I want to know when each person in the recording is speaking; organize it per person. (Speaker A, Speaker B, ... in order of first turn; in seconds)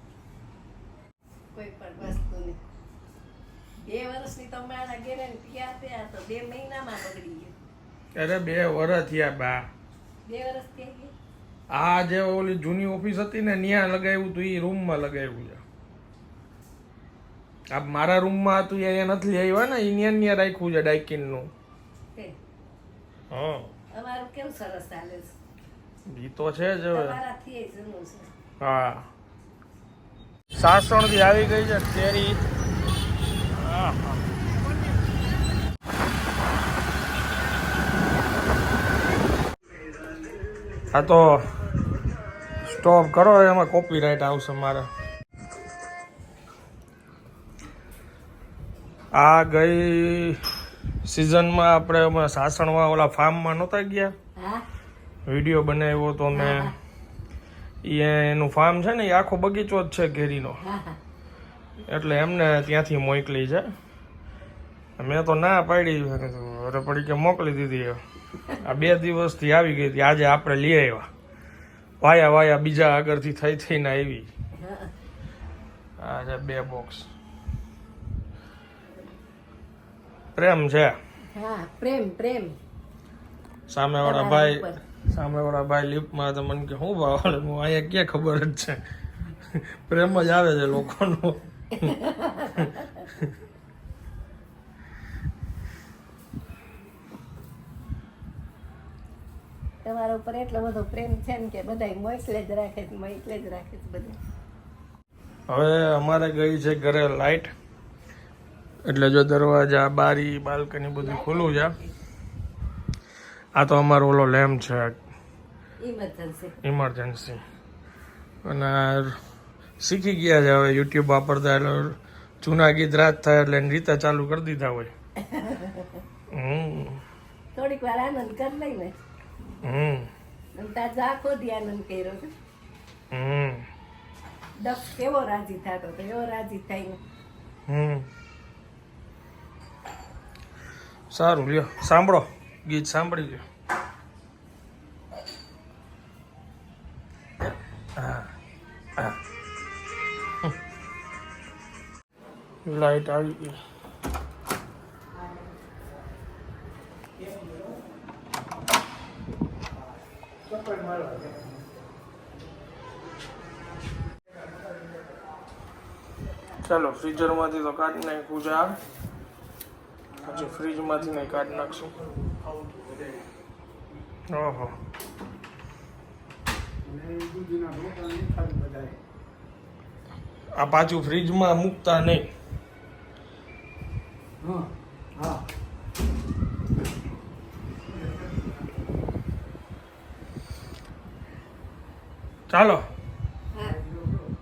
Speaker A: 1.5-2.6, 3.8-7.5, 10.2-11.1, 23.9-25.3, 26.9-28.3, 54.4-54.6, 56.3-56.7, 60.6-61.0, 74.6-74.9, 81.3-82.5, 84.0-84.7, 91.8-92.8, 99.8-104.2, 111.0-111.9, 115.8-116.6, 125.2-126.0, 127.5-128.9, 130.5-132.3, 134.6-137.0, 193.5-193.8
Speaker B: 8.1-9.7, 11.7-15.6, 17.7-21.5, 23.3-23.7, 26.1-27.2, 28.6-29.1, 30.5-32.4, 33.5-34.2, 40.9-41.4, 42.6-44.9, 49.1-50.4, 51.0-54.1, 55.3-56.7, 57.8-60.6, 61.9-63.7, 65.0-71.1, 72.0-74.3, 76.0-77.0, 80.3-81.0, 83.7-88.8, 89.5-92.0, 92.6-93.3, 105.5-107.5, 108.8-111.8, 113.5-115.0, 116.6-117.4, 118.4-119.2, 119.8-124.9, 126.3-127.0, 129.6-130.1, 133.1-133.7, 137.7-138.1, 141.1-143.4, 147.9-148.3, 152.6-153.6, 166.6-168.8, 170.2-171.9, 174.3-174.7, 180.6-182.2, 192.5-192.8
Speaker C: 160.6-161.3, 172.1-173.2, 176.8-179.0, 184.4-185.4